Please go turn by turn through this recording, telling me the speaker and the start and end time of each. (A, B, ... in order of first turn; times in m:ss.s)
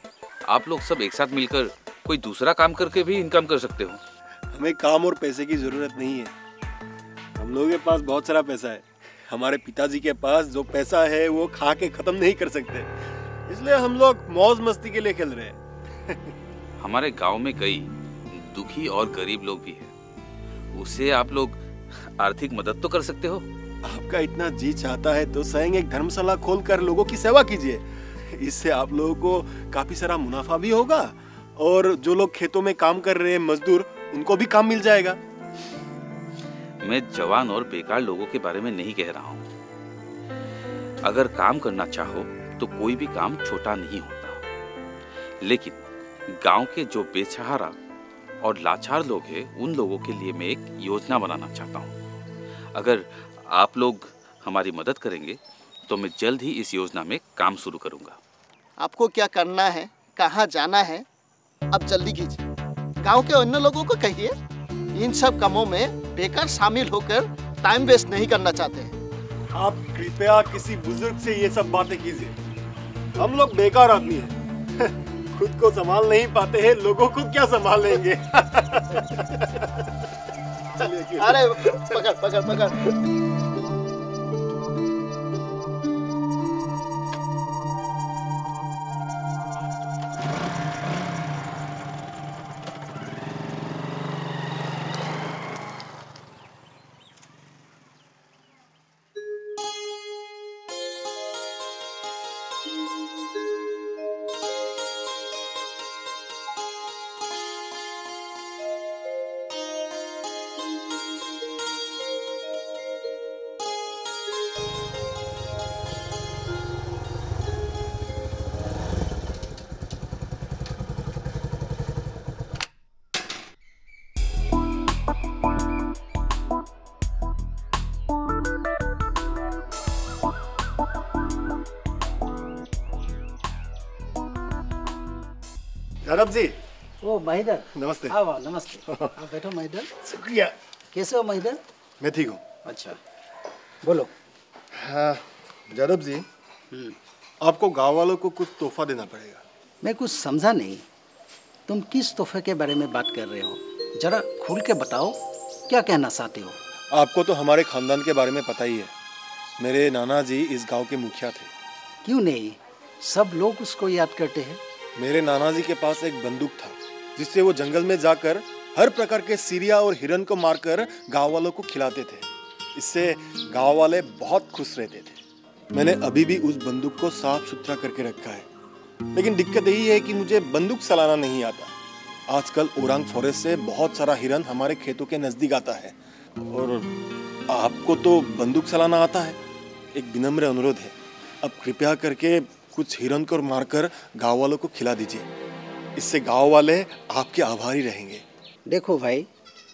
0:00.5-0:04.0 A
0:04.5-0:06.3 B
0:07.4-0:12.9 B
0:13.5-0:16.3 B
0:16.8-0:19.9 A
0:20.7-0:23.5 A
0:23.8-0:35.2 B
0:36.8-0:39.4 A
0:41.0-0:44.4 A
0:45.4-0:47.8 A
0:48.4-0:51.9 A
0:52.7-0:58.2 A
0:58.8-1:01.0 C
1:01.7-1:02.4 C
1:03.0-1:04.3 C
1:04.9-1:09.0 C
1:09.6-1:12.3 B
1:13.2-1:19.6 B
1:20.8-1:22.0 B
1:21.2-1:22.7 C
2:16.0-2:16.5 B
2:17.0-2:19.9 D
2:17.7-2:18.2 B
2:20.1-2:20.5 B
2:20.9-2:21.6 D
2:22.0-2:22.4 B
2:22.6-2:23.0 D
2:23.8-2:24.1 D
2:25.8-2:26.2 B
2:27.4-2:29.4 B
2:29.8-2:30.8 D
2:31.7-2:36.6 D
2:36.9-2:38.9 B
2:39.6-2:41.5 B
2:42.0-2:44.6 D
2:45.0-2:55.2 B
2:55.7-2:58.5 B
2:59.1-3:01.7 B
3:02.3-3:05.9 B
3:06.5-3:06.9 B
3:07.5-3:09.4 B
3:09.9-3:15.3 B
3:16.0-3:18.2 B
3:18.7-3:19.3 D